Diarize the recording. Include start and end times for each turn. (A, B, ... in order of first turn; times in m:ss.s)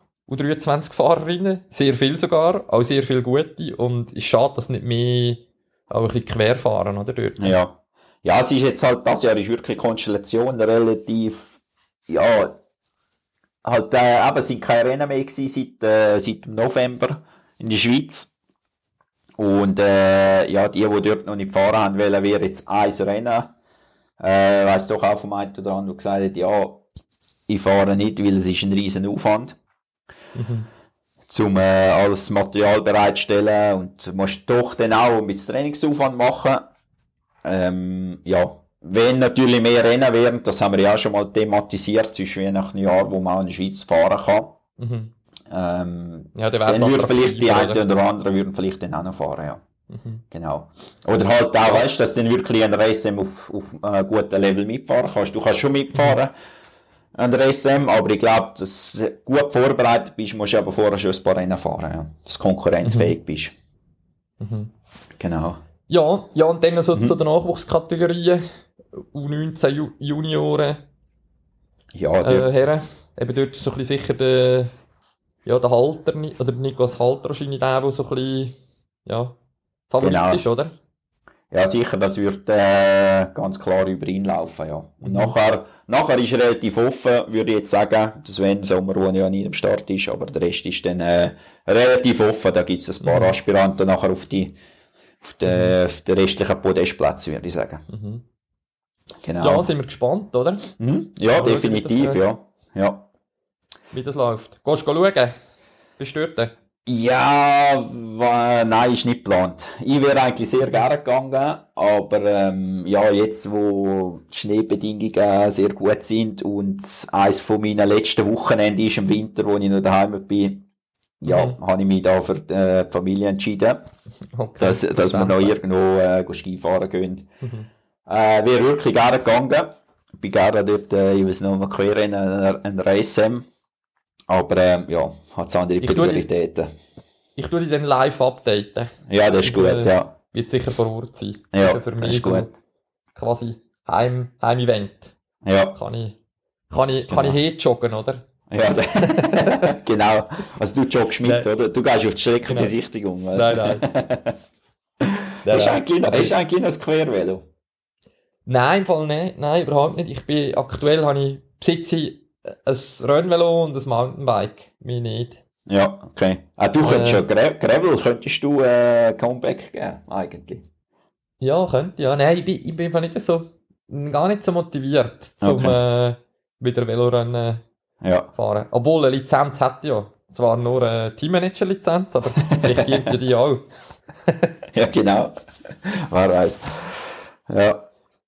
0:00.3-0:07.6 A
0:07.4-0:11.6 B
0:12.1-0:12.6 B
0:13.6-0:18.3 B
0:19.4-0:23.5 B
0:24.2-0:26.8 B
0:27.5-0:29.6 B
0:30.4-0:30.7 A
0:31.3-0:36.7 B
0:37.4-0:44.6 B
0:44.8-0:45.1 A
0:45.5-0:49.6 B
0:46.4-0:47.8 A
0:49.9-0:50.2 A
0:50.3-0:56.3 B
0:57.2-1:03.5 B
1:02.8-1:03.1 A
1:04.4-1:04.7 A
1:05.2-1:05.6 B
1:05.9-1:08.4 A
1:09.0-1:10.8 A
1:11.9-1:12.5 B
1:12.2-1:14.7 A
1:15.4-1:18.6 A
1:19.1-1:19.4 A
1:19.9-1:20.7 A
1:20.0-1:20.4 B
1:21.5-1:34.6 B
1:25.0-1:25.4 A
1:33.0-1:33.3 A
1:35.2-1:37.8 B
1:35.4-1:35.8 A
1:37.9-1:38.2 A
1:39.2-1:39.7 B
1:39.4-1:40.7 A
1:40.8-1:43.1 B
1:41.3-1:42.2 A
1:43.9-1:45.3 A
1:46.0-1:46.5 A
1:46.9-2:00.7 B
2:01.2-2:03.9 B
2:01.3-2:01.6 A
2:04.3-2:05.6 A
2:04.6-2:07.3 B
2:07.4-2:07.7 A
2:08.1-2:13.5 B
2:14.3-2:16.7 B
2:15.8-2:16.3 A
2:17.4-2:18.9 A
2:19.1-2:20.1 B
2:19.4-2:22.5 A
2:21.5-2:22.5 B
2:23.2-2:25.1 A
2:25.4-2:25.8 B
2:25.8-2:26.2 A
2:26.7-2:28.2 A
2:27.1-2:27.4 B
2:28.5-2:34.4 B
2:29.0-2:29.7 A
2:32.5-2:32.7 A
2:33.3-2:33.8 A
2:35.0-2:37.4 B
2:35.4-2:36.3 A
2:38.5-2:45.4 A
2:45.7-2:50.6 B
2:46.8-2:47.2 A
2:51.4-2:57.6 A
2:55.4-2:55.8 B
2:58.0-2:58.3 B
2:58.4-3:03.7 A
3:02.4-3:03.1 B
3:04.3-3:04.6 A
3:04.7-3:07.9 B